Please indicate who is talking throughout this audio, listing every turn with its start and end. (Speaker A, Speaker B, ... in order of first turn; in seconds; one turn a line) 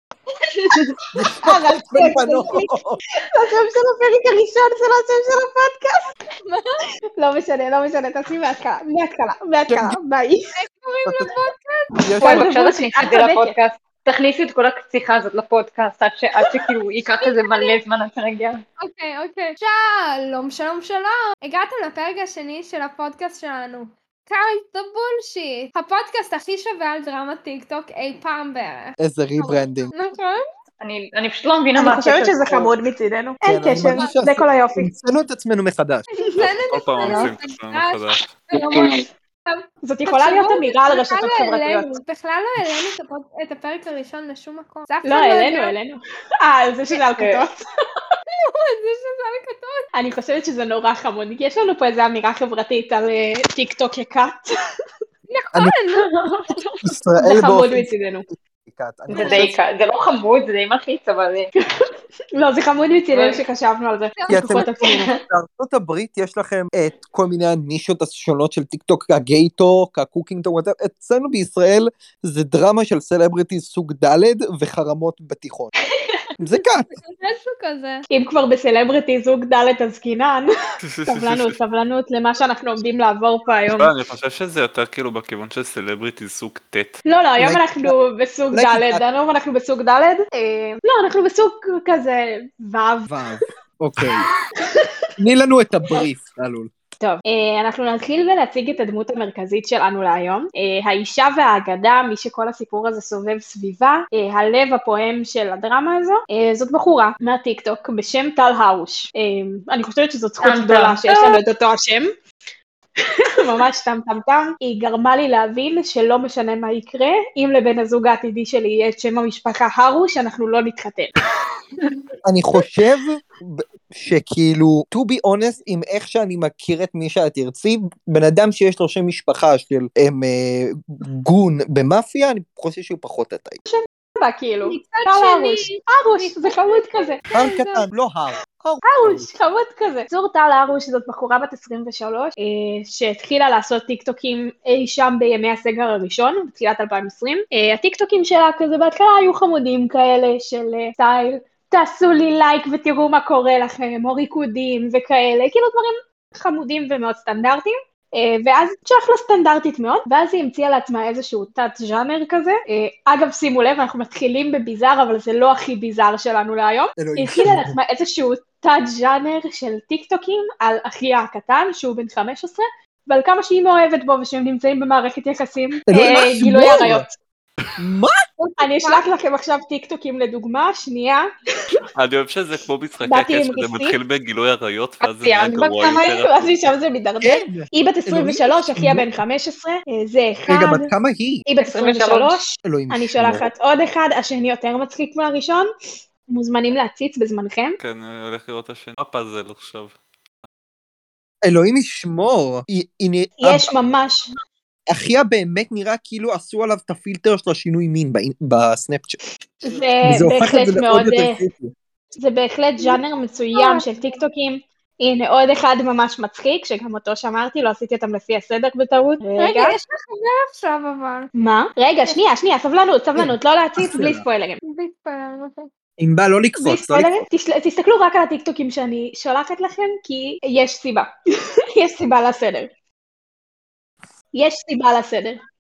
Speaker A: 1.1-3.0
Speaker B: 1.4-2.7
Speaker B: 3.3-6.1
Speaker C: 6.5-6.8
Speaker B: 7.2-10.4
Speaker A: 9.7-10.0
Speaker C: 10.6-11.9
Speaker A: 12.0-12.5
Speaker B: 12.2-13.5
Speaker D: 12.2-18.6
Speaker C: 17.2-17.8
Speaker C: 18.8-30.4
Speaker A: 29.0-29.9
Speaker D: 30.8-32.7
Speaker B: 31.8-34.9
Speaker A: 33.5-36.1
Speaker C: 36.2-45.8
Speaker E: 36.7-38.4
Speaker D: 38.7-39.0
Speaker B: 39.8-42.0
Speaker B: 45.0-48.0
Speaker D: 47.2-47.4
Speaker C: 48.3-49.9
Speaker B: 50.0-54.5
Speaker C: 55.3-56.7
Speaker A: 56.8-57.9
Speaker B: 57.2-58.3
Speaker A: 58.7-59.6
Speaker D: 59.1-61.5
Speaker C: 59.2-59.5
Speaker B: 61.8-65.1
Speaker D: 63.1-63.4
Speaker C: 64.2-64.8
Speaker A: 64.3-75.7
Speaker D: 64.9-65.2
Speaker A: 76.4-76.9
Speaker C: 76.4-78.0
Speaker B: 78.1-80.5
Speaker E: 80.8-81.6
Speaker B: 81.1-83.9
Speaker E: 83.8-87.0
Speaker B: 87.1-93.2
Speaker A: 87.4-87.9
Speaker A: 88.5-89.0
Speaker A: 93.1-94.3
Speaker B: 94.6-94.9
Speaker A: 95.2-96.7
Speaker B: 97.0-112.1
Speaker D: 110.4-111.4
Speaker B: 113.0-121.1
Speaker A: 122.2-133.6
Speaker B: 133.7-137.2
Speaker C: 134.6-137.9
Speaker A: 137.3-139.3
Speaker B: 138.8-177.2
Speaker A: 167.0-167.8
Speaker A: 175.9-177.1
Speaker A: 177.8-178.2
Speaker C: 178.4-179.1
Speaker B: 178.6-181.8
Speaker E: 181.9-186.7
Speaker B: 183.1-184.0
Speaker D: 185.0-186.1
Speaker B: 185.9-190.9
Speaker A: 187.2-189.1
Speaker A: 190.5-191.4
Speaker B: 191.5-195.7
Speaker D: 191.6-192.4
Speaker A: 192.7-193.5
Speaker B: 196.3-197.8
Speaker E: 197.8-199.9
Speaker A: 201.4-203.7
Speaker B: 203.4-204.3
Speaker A: 204.9-209.2
Speaker B: 209.6-211.4
Speaker A: 210.0-211.7
Speaker B: 212.2-219.8
Speaker C: 213.5-214.2
Speaker C: 219.4-221.3
Speaker B: 221.4-224.6
Speaker A: 223.2-224.2
Speaker C: 224.6-225.7
Speaker A: 226.0-227.2
Speaker B: 226.6-231.1
Speaker B: 231.8-232.7
Speaker B: 234.3-235.4